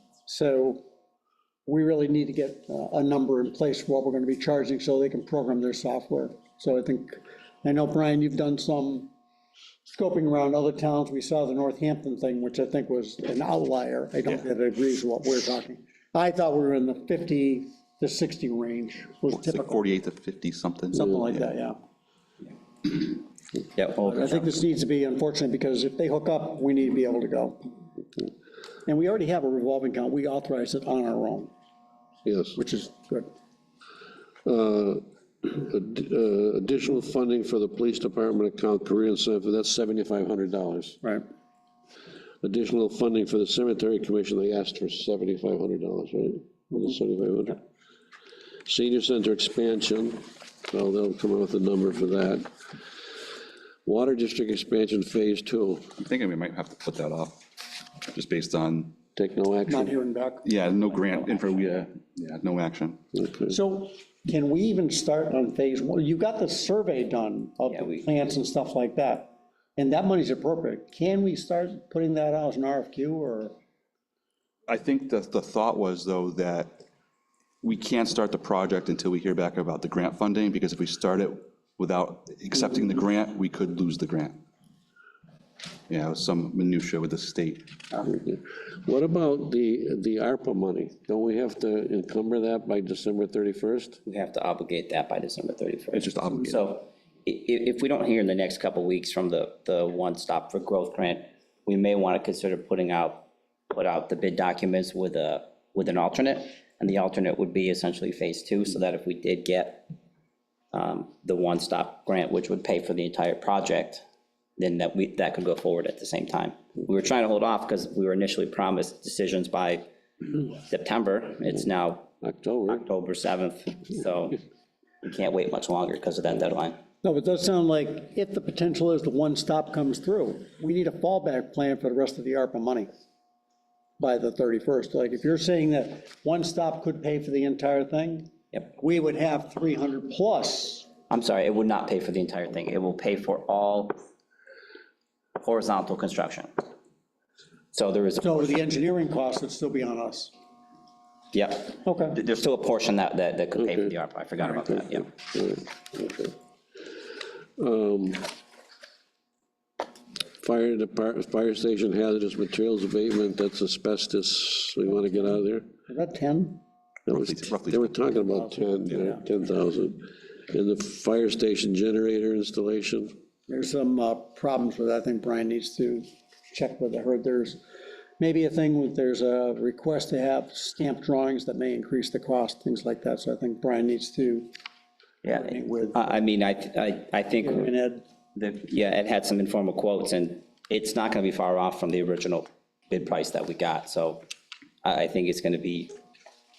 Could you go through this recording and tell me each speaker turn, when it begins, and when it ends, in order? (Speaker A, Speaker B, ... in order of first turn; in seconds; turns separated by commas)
Speaker A: 0.3-0.8, Speaker A: 1.7-9.1, Speaker A: 9.9-19.8, Speaker B: 19.3-21.5, Speaker A: 20.9-21.8, Speaker C: 23.8-24.5, Speaker A: 24.1-27.7, Speaker A: 28.9-31.5, Speaker D: 32.3-32.6, Speaker A: 32.6-33.3, Speaker D: 34.5-41.0, Speaker D: 42.4-47.6, Speaker D: 48.7-52.5, Speaker D: 53.9-55.9, Speaker B: 56.0-57.5, Speaker B: 58.1-59.0, Speaker D: 59.2-59.9, Speaker A: 59.7-60.5, Speaker B: 60.4-63.0, Speaker C: 60.9-61.6, Speaker D: 63.1-63.6, Speaker A: 63.5-73.5, Speaker C: 67.7-68.1, Speaker B: 74.7-76.8, Speaker B: 77.6-84.4, Speaker B: 85.9-87.7, Speaker D: 88.0-94.0, Speaker C: 94.1-109.9, Speaker B: 95.9-96.6, Speaker C: 110.7-114.0, Speaker C: 114.6-119.9, Speaker C: 120.5-122.1, Speaker D: 122.2-122.8, Speaker C: 122.7-124.4, Speaker C: 125.0-126.8, Speaker A: 127.0-132.9, Speaker A: 134.0-140.9, Speaker C: 141.1-144.0, Speaker C: 145.4-146.5, Speaker C: 147.7-148.7, Speaker A: 148.2-150.3, Speaker C: 151.3-155.1, Speaker A: 151.8-152.2, Speaker D: 153.6-153.9, Speaker D: 154.5-156.3, Speaker D: 157.6-158.3, Speaker D: 160.4-165.7, Speaker A: 165.9-166.6, Speaker D: 167.1-173.2, Speaker B: 167.1-167.9, Speaker A: 168.4-169.3, Speaker A: 173.5-177.6, Speaker A: 178.2-184.5, Speaker C: 185.2-187.7, Speaker A: 185.3-186.2, Speaker A: 187.4-188.1, Speaker C: 188.3-194.2, Speaker C: 194.8-195.9